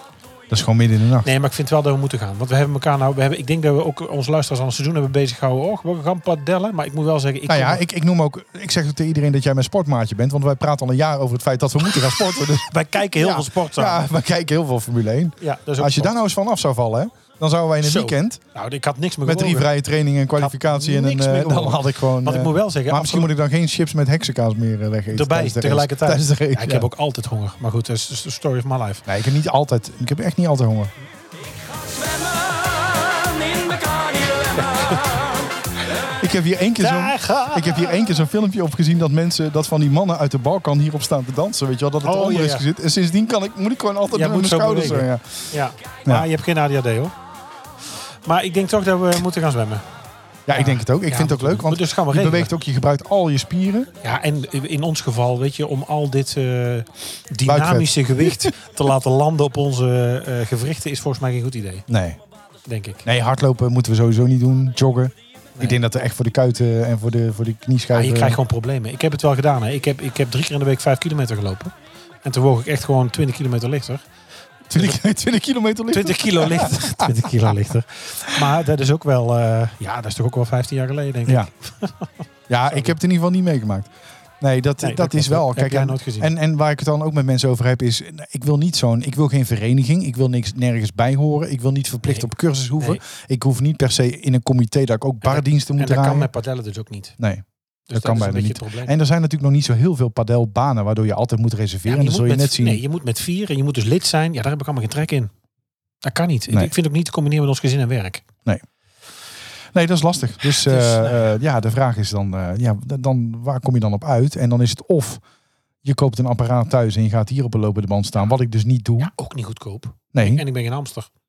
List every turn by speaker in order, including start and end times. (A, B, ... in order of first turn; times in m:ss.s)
0:00.5-0:01.3 A
0:01.2-0:07.8 B
0:07.5-0:18.4 A
0:12.6-0:14.0 B
0:15.4-0:16.2 B
0:17.8-0:19.7 B
0:19.2-0:26.9 A
0:20.4-0:23.3 B
0:25.1-0:29.0 B
0:29.1-0:30.9 A
0:33.6-0:35.2 B
0:36.2-0:45.5 A
0:36.8-0:37.9 B
0:42.0-0:42.7 B
0:44.1-0:47.1 B
0:48.2-0:49.8 B
0:50.5-0:53.9 A
0:50.5-0:52.5 B
0:54.0-1:01.9 B
0:57.5-0:58.5 A
1:01.9-1:02.2 A
1:02.7-1:03.0 B
1:03.0-1:08.4 A
1:07.9-1:14.1 B
1:14.7-1:17.6 A
1:15.9-1:22.1 B
1:22.5-1:36.3 A
1:22.7-1:23.0 B
1:24.8-1:26.3 B
1:32.0-1:33.0 B
1:35.2-1:37.2 B
1:37.2-1:42.8 A
1:37.9-1:38.9 B
1:41.8-1:45.3 B
1:46.0-1:48.2 B
1:49.7-1:55.2 A
1:50.6-1:51.3 B
1:55.8-1:59.1 A
1:59.0-2:01.1 B
2:00.1-2:00.4 A